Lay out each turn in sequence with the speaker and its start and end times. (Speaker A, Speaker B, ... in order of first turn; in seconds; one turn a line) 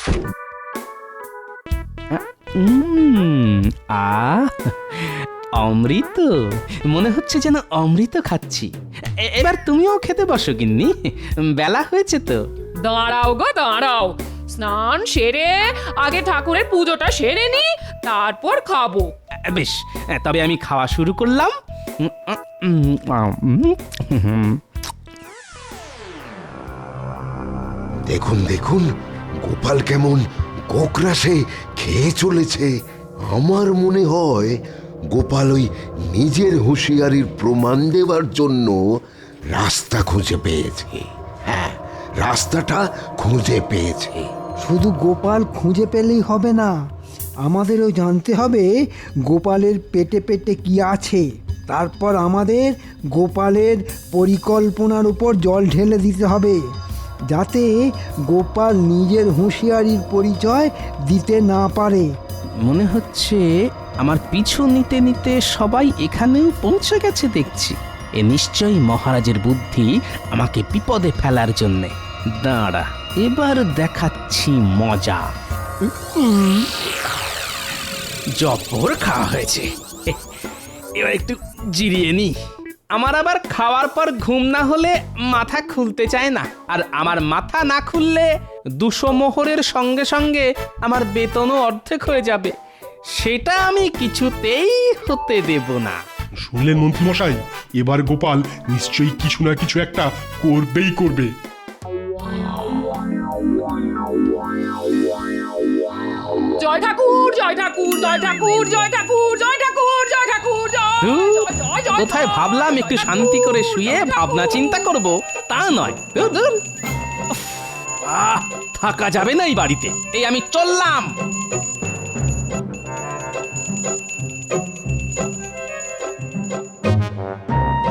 Speaker A: 2.1-6.4
Speaker A: 6.9-8.7
Speaker A: 9.2-12.4
Speaker B: 12.8-19.1
Speaker A: 19.5-24.6
Speaker C: 28.1-28.9
Speaker C: 29.4-32.7
Speaker C: 33.3-34.5
Speaker C: 35.1-38.8
Speaker C: 39.5-44.3
Speaker D: 44.6-46.7
Speaker D: 47.4-48.7
Speaker D: 49.3-56.6
Speaker D: 57.3-57.7
Speaker D: 58.3-62.1
Speaker A: 62.6-63.5
Speaker A: 64.0-75.3
Speaker A: 78.4-80.2
Speaker A: 81.0-82.3
Speaker A: 82.9-88.3
Speaker A: 88.8-92.5
Speaker A: 93.1-96.0
Speaker E: 96.4-101.3
Speaker B: 106.6-114.5
Speaker A: 111.0-116.6
Speaker A: 118.0-121.1